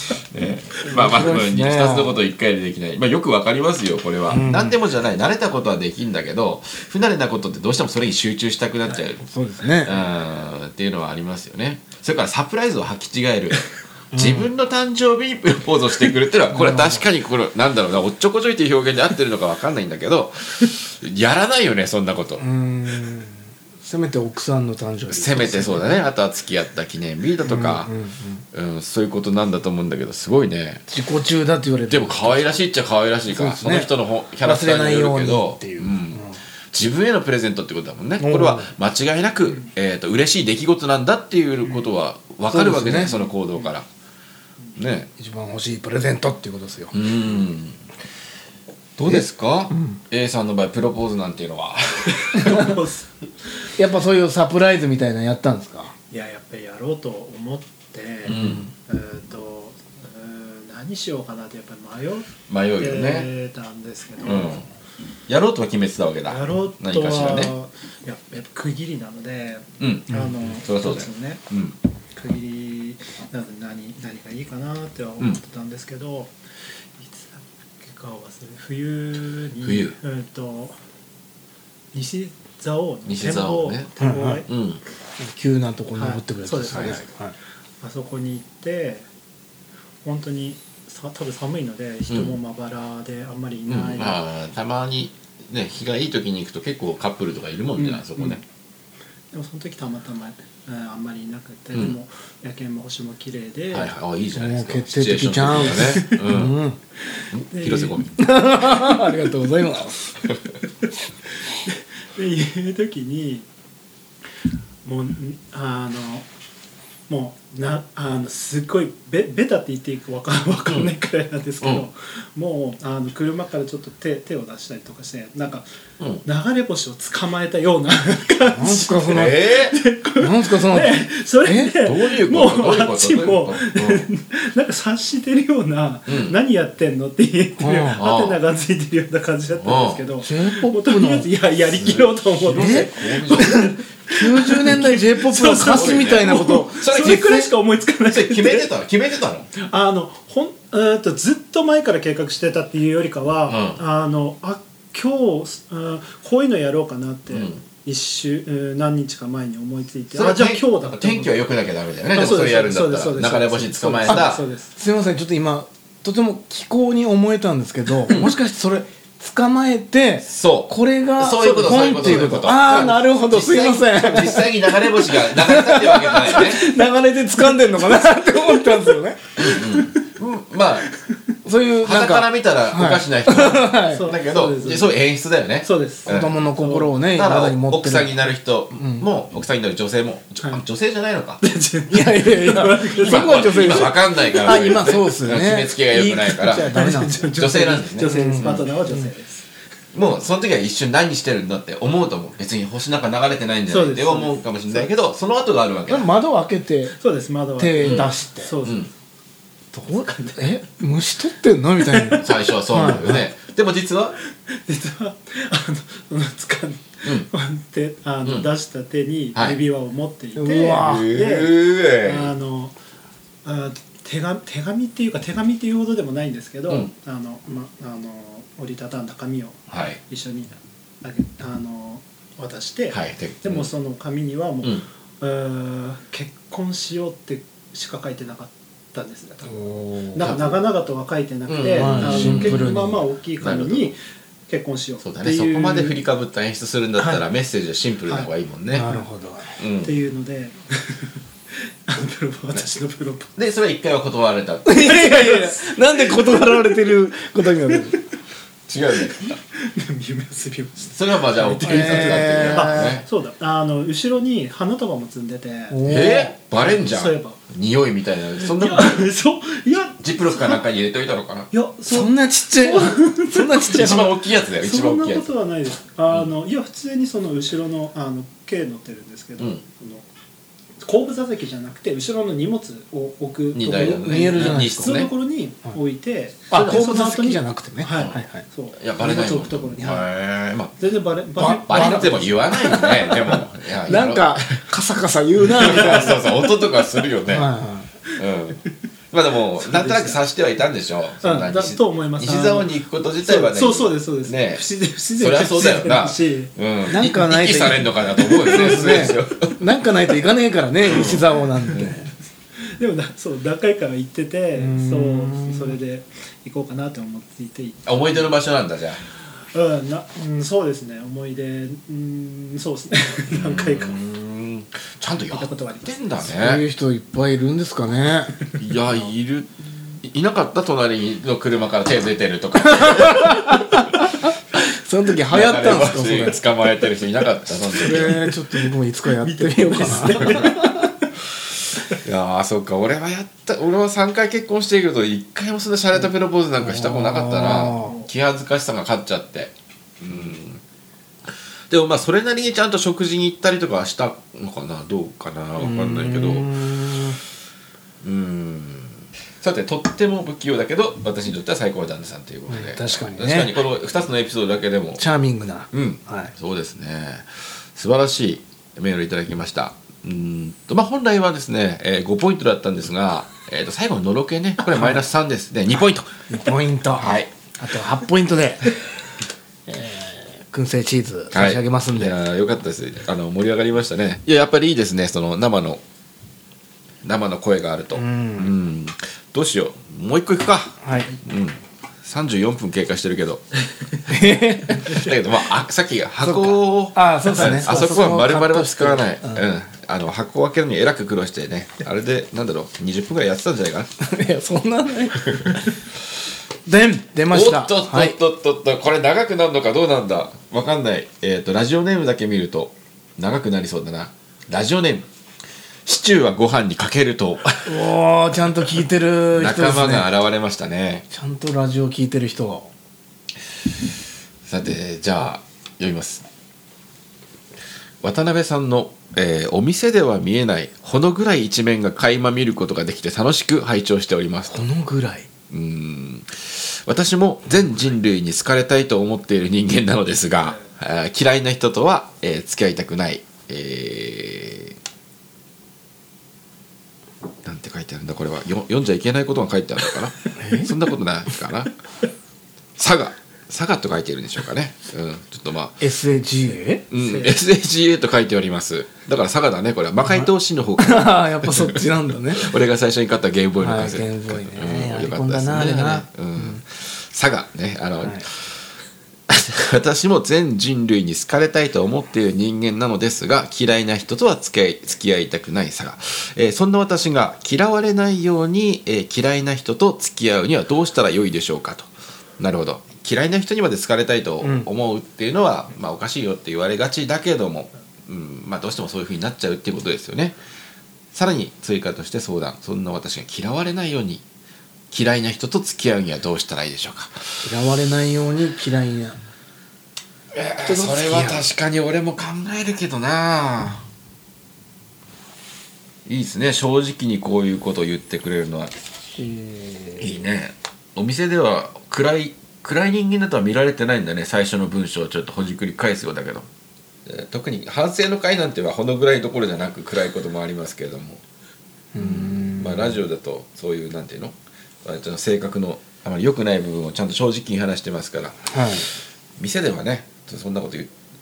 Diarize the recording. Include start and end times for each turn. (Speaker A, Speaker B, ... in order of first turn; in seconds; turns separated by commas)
Speaker A: 0.3-9.3, Speaker B: 0.8-2.2, Speaker B: 4.3-4.8, Speaker B: 9.2-9.9, Speaker A: 9.8-22.4, Speaker B: 14.1-14.5, Speaker B: 16.5-17.1, Speaker B: 22.4-26.0, Speaker A: 25.1-27.9, Speaker B: 27.4-28.4, Speaker A: 28.5-30.8, Speaker B: 30.9-32.6, Speaker A: 31.9-43.9, Speaker B: 33.3-33.9, Speaker B: 34.4-36.4, Speaker B: 38.2-38.7, Speaker B: 42.5-43.1, Speaker A: 44.8-45.1, Speaker B: 45.2-47.0, Speaker A: 46.9-47.8, Speaker A: 49.0-52.7, Speaker B: 49.0-50.0, Speaker C: 52.3-53.1, Speaker B: 52.4-52.7, Speaker B: 53.8-55.9, Speaker C: 56.1-64.6, Speaker A: 58.2-58.7, Speaker B: 58.2-58.7, Speaker A: 62.5-63.3, Speaker A: 64.2-64.6, Speaker A: 65.3-67.5, Speaker C: 66.3-71.4, Speaker A: 69.8-71.8, Speaker C: 72.1-76.3, Speaker C: 77.0-80.8, Speaker A: 79.6-80.0, Speaker C: 81.9-84.5, Speaker A: 83.0-83.9, Speaker B: 84.0-84.4, Speaker A: 84.4-84.8, Speaker B: 85.2-87.3, Speaker C: 86.0-87.0, Speaker A: 86.7-87.0, Speaker C: 87.8-89.0, Speaker C: 90.0-94.2, Speaker A: 92.1-92.3, Speaker A: 93.7-98.4, Speaker C: 97.8-98.4, Speaker C: 99.3-103.9, Speaker A: 103.7-106.6, Speaker B: 104.3-106.8, Speaker C: 105.8-106.2, Speaker A: 107.3-108.2, Speaker C: 107.5-108.0, Speaker B: 108.2-110.2, Speaker C: 111.5-113.5, Speaker C: 114.8-116.2, Speaker C: 117.1-125.7, Speaker A: 121.6-121.8, Speaker C: 126.2-148.7, Speaker B: 128.5-129.4, Speaker A: 129.1-129.8, Speaker B: 130.2-131.7, Speaker A: 131.8-134.1, Speaker A: 136.1-136.3, Speaker B: 137.6-138.0, Speaker A: 137.9-138.4, Speaker A: 139.6-140.0, Speaker B: 140.2-141.3, Speaker A: 141.7-143.7, Speaker B: 142.5-147.5, Speaker A: 145.6-147.2, Speaker A: 148.1-149.5, Speaker C: 149.5-161.4, Speaker A: 153.5-153.8, Speaker A: 157.3-157.6, Speaker A: 160.1-164.4, Speaker C: 162.1-164.7, Speaker B: 164.1-179.2, Speaker A: 170.2-176.7, Speaker A: 179.3-180.9, Speaker B: 181.4-184.1, Speaker A: 181.8-186.5, Speaker C: 183.9-185.0, Speaker C: 185.6-186.9, Speaker B: 186.1-188.1, Speaker A: 187.0-191.4, Speaker B: 188.8-189.1, Speaker C: 191.4-194.8, Speaker B: 191.9-197.4, Speaker A: 193.0-196.7, Speaker C: 196.4-199.5, Speaker A: 197.3-198.7, Speaker B: 198.0-199.1, Speaker A: 199.9-206.1, Speaker C: 203.7-204.9, Speaker B: 205.9-206.9, Speaker C: 207.0-208.9, Speaker B: 207.6-208.5, Speaker A: 207.8-208.1, Speaker A: 208.6-208.9, Speaker B: 209.7-213.2, Speaker C: 209.8-210.6, Speaker C: 211.9-212.2, Speaker A: 212.2-214.2, Speaker C: 214.5-222.7, Speaker A: 217.0-217.3, Speaker B: 220.3-221.1, Speaker A: 220.8-222.3, Speaker C: 223.4-243.9, Speaker A: 229.7-230.0, Speaker A: 232.9-233.7, Speaker B: 239.5-240.3, Speaker A: 240.2-240.6, Speaker A: 241.5-242.8, Speaker B: 241.8-243.0, Speaker A: 243.4-243.9, Speaker C: 244.5-246.0, Speaker A: 245.0-248.9, Speaker B: 248.7-249.5, Speaker A: 249.6-249.9, Speaker C: 249.8-251.1, Speaker C: 251.8-253.3, Speaker A: 253.3-254.8, Speaker B: 254.6-258.0, Speaker C: 254.8-256.7, Speaker C: 257.7-258.0, Speaker A: 258.7-259.4, Speaker C: 259.1-265.8, Speaker A: 260.9-263.0, Speaker B: 261.6-262.9, Speaker B: 265.7-266.3, Speaker A: 265.8-269.1, Speaker C: 266.6-267.4, Speaker C: 268.4-270.6, Speaker A: 270.0-271.5, Speaker C: 271.5-273.9, Speaker B: 271.9-274.2, Speaker A: 273.7-275.2, Speaker C: 274.6-280.0, Speaker C: 280.8-290.1, Speaker A: 283.5-285.1, Speaker B: 283.9-285.1, Speaker B: 286.5-288.4, Speaker A: 286.5-286.8, Speaker A: 287.9-288.2, Speaker A: 288.8-290.8, Speaker C: 290.8-293.0, Speaker B: 291.4-296.2, Speaker A: 291.4-294.6, Speaker A: 295.5-297.5, Speaker C: 295.6-296.2, Speaker B: 297.3-297.9, Speaker A: 298.1-304.6, Speaker C: 299.6-300.2, Speaker C: 301.2-306.5, Speaker A: 305.2-309.6, Speaker B: 306.9-312.1, Speaker C: 308.3-309.2, Speaker A: 310.9-311.2, Speaker C: 310.9-311.9, Speaker C: 312.6-318.4, Speaker B: 314.6-315.8, Speaker A: 317.9-319.0, Speaker C: 319.5-324.0, Speaker A: 323.3-326.6, Speaker C: 325.3-325.9, Speaker B: 326.2-328.3, Speaker A: 328.6-329.5, Speaker A: 330.0-334.3, Speaker B: 332.7-336.4, Speaker A: 335.3-338.2, Speaker B: 337.7-340.9, Speaker C: 338.2-341.1, Speaker A: 341.9-350.6, Speaker B: 346.6-348.0, Speaker C: 347.6-348.1, Speaker A: 351.7-356.8, Speaker B: 355.6-357.2, Speaker A: 358.0-365.0, Speaker B: 362.5-363.5, Speaker B: 365.0-366.3, Speaker A: 365.7-376.1, Speaker B: 376.3-378.7, Speaker A: 376.9-377.3, Speaker B: 379.7-382.2, Speaker A: 381.3-385.8, Speaker A: 387.0-393.4, Speaker B: 387.9-388.5, Speaker B: 390.8-391.1, Speaker B: 394.1-395.2, Speaker A: 394.7-403.9, Speaker B: 396.2-399.5, Speaker B: 404.0-405.7, Speaker A: 405.2-405.6, Speaker B: 406.6-408.2, Speaker A: 407.3-415.1, Speaker A: 415.8-417.8, Speaker B: 417.6-420.1, Speaker A: 419.3-421.0, Speaker B: 421.1-422.7, Speaker A: 424.4-426.2, Speaker A: 428.0-434.7, Speaker B: 434.5-435.3, Speaker A: 435.5-444.8, Speaker A: 447.4-451.7, Speaker B: 450.4-450.7, Speaker A: 452.8-455.9, Speaker B: 455.8-456.9, Speaker A: 456.9-461.8, Speaker C: 457.0-457.4, Speaker B: 460.1-462.5, Speaker A: 462.3-468.6, Speaker B: 463.6-466.6, Speaker A: 469.3-490.4, Speaker B: 484.4-484.7, Speaker A: 491.1-494.2, Speaker A: 494.9-497.4, Speaker B: 497.4-499.2, Speaker A: 500.3-503.9, Speaker B: 500.6-501.5, Speaker A: 506.1-508.7, Speaker B: 509.1-510.1, Speaker A: 510.0-516.5, Speaker A: 517.0-521.2, Speaker B: 521.9-523.0, Speaker A: 522.0-530.9, Speaker B: 528.5-528.9